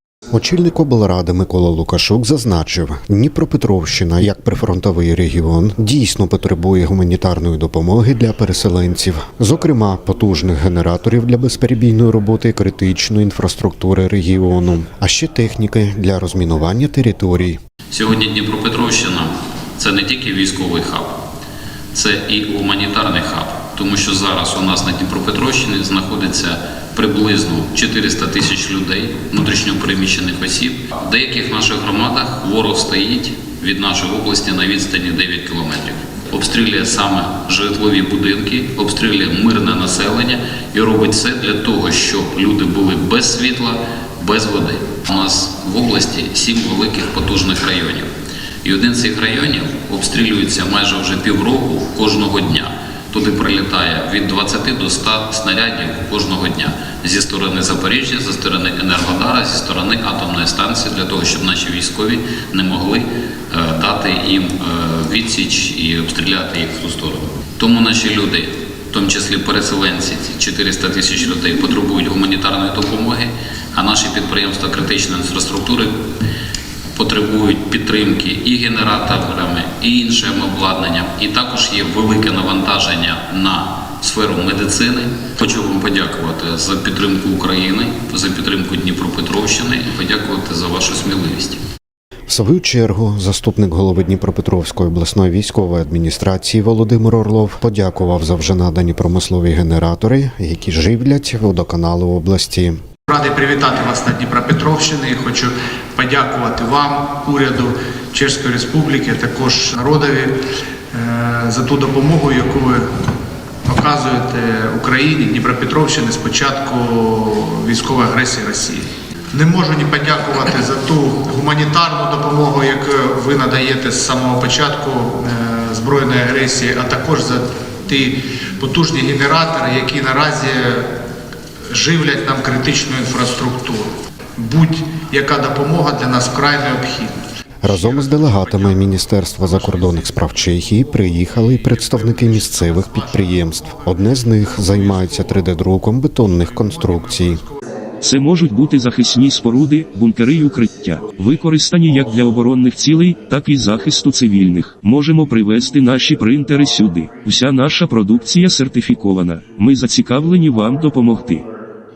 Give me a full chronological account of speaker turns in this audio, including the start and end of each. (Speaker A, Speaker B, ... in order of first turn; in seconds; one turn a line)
Speaker A: 0.3-17.6
Speaker B: 17.9-21.1
Speaker B: 21.9-48.1
Speaker B: 48.6-75.9
Speaker B: 76.9-91.6
Speaker A: 92.3-102.8
Speaker C: 103.1-110.3
Speaker C: 110.9-112.8
Speaker C: 113.7-130.9
Speaker C: 131.7-138.6
Speaker A: 137.6-147.4
Speaker C: 141.8-145.3
Speaker C: 146.6-147.5
Speaker D: 148.0-161.4